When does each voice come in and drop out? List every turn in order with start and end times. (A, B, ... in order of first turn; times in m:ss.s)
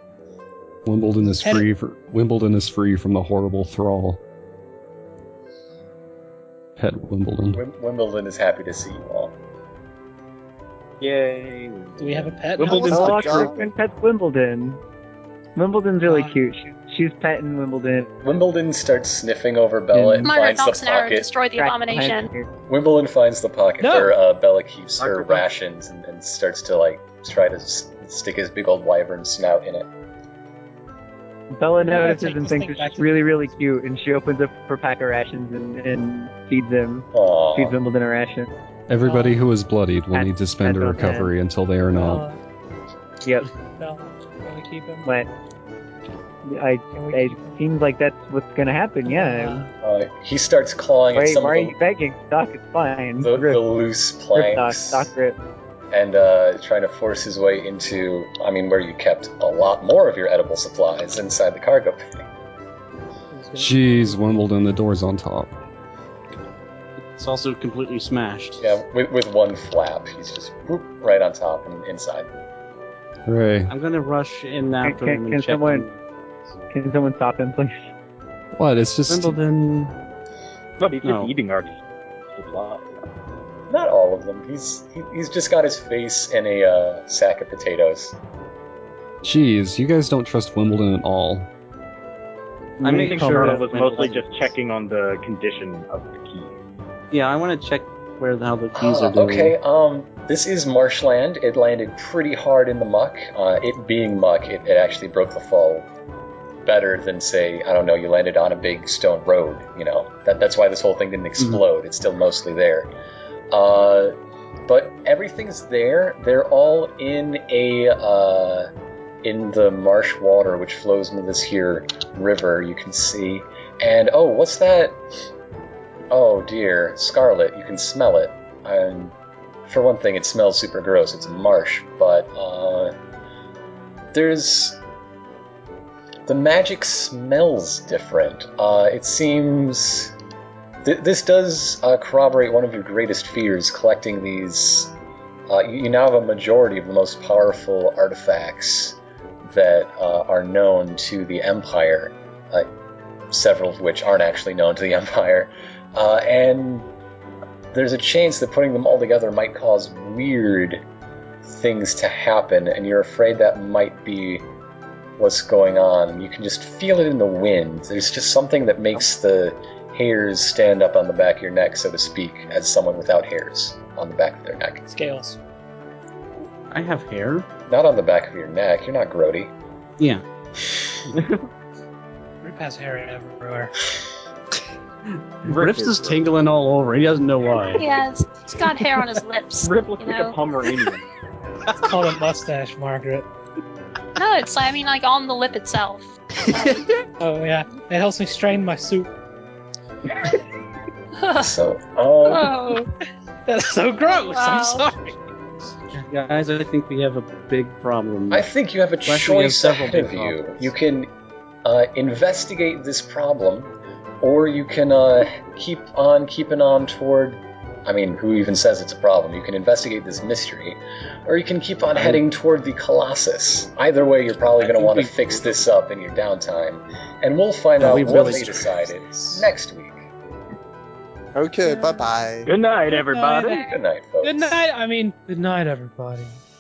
0:00.8-0:04.2 A
0:01.4-0:01.7 B
0:06.8-0:07.6 A
0:07.5-0:09.4 C
0:11.0-0:13.7 D
0:12.0-0:13.4 B
0:12.6-0:14.8 E
0:12.9-0:13.6 F
0:15.6-0:18.1 E
0:16.0-0:16.4 B
0:18.2-0:21.3 C
0:19.9-0:20.2 G
0:20.2-0:22.3 H
0:21.5-0:22.5 E
0:22.7-0:29.9 C
0:23.8-0:24.2 B
0:25.0-0:25.4 D
0:31.5-0:38.5 E
0:31.8-0:33.6 B
0:32.4-0:32.8 H
0:37.1-0:37.8 C
0:38.9-0:42.3 A
0:39.0-0:39.4 B
0:40.1-0:41.3 E
0:42.0-0:42.4 B
0:43.2-0:43.5 E
0:43.8-0:45.1 B
0:45.0-0:45.3 E
0:46.4-0:49.6 E
0:46.9-0:47.5 B
0:49.0-0:49.7 B
0:49.8-0:51.8 C
0:51.1-0:53.6 E
0:53.2-0:55.1 C
0:54.3-0:55.4 E
0:55.9-1:02.2 C
1:03.6-1:05.5 A
1:07.0-1:08.7 G
1:08.6-1:12.3 C
1:13.3-1:13.7 A
1:13.7-1:16.0 G
1:14.8-1:15.9 E
1:16.7-1:17.9 E
1:18.6-1:19.4 A
1:19.1-1:20.0 G
1:20.8-1:22.9 D
1:21.0-1:21.3 G
1:23.7-1:28.2 C
1:29.2-1:31.5 A
1:32.8-1:34.3 G
1:32.8-1:36.6 D
1:32.8-1:34.0 E
1:37.1-1:39.6 G
1:38.8-1:45.9 C
1:46.6-1:52.9 C
1:53.5-1:54.2 C
1:54.7-1:58.7 C
1:59.2-2:05.0 C
2:06.1-2:09.1 C
2:09.7-2:12.9 C
2:14.1-2:14.8 C
2:16.3-2:20.1 C
2:20.8-2:24.9 C
2:25.5-2:32.7 C
2:33.3-2:36.9 C
2:37.7-2:40.8 C
2:41.4-2:44.5 C
2:45.2-2:54.8 C
2:54.9-2:55.4 B
2:56.7-2:57.5 G
2:57.7-2:59.5 C
3:01.2-3:01.4 D
3:02.4-3:03.7 B
3:05.2-3:07.9 G
3:05.5-3:06.2 D
3:07.6-3:10.4 H
3:09.6-3:11.0 D
3:11.8-3:13.3 B
3:14.2-3:16.9 H
3:16.4-3:16.8 G
3:17.2-3:19.1 B
3:21.2-3:21.5 H
3:21.3-3:22.6 C
3:22.2-3:22.9 H
3:23.5-3:25.2 B
3:24.0-3:24.9 H
3:26.0-3:28.5 G
3:28.3-3:31.1 C
3:29.1-3:30.7 G
3:31.6-3:50.0 C
3:41.9-3:42.2 G
3:44.6-3:45.7 G
3:47.8-3:49.5 G
3:51.3-3:52.5 F
3:51.6-3:52.1 B
3:52.5-3:53.6 D
3:52.8-3:56.4 B
3:53.6-3:54.6 C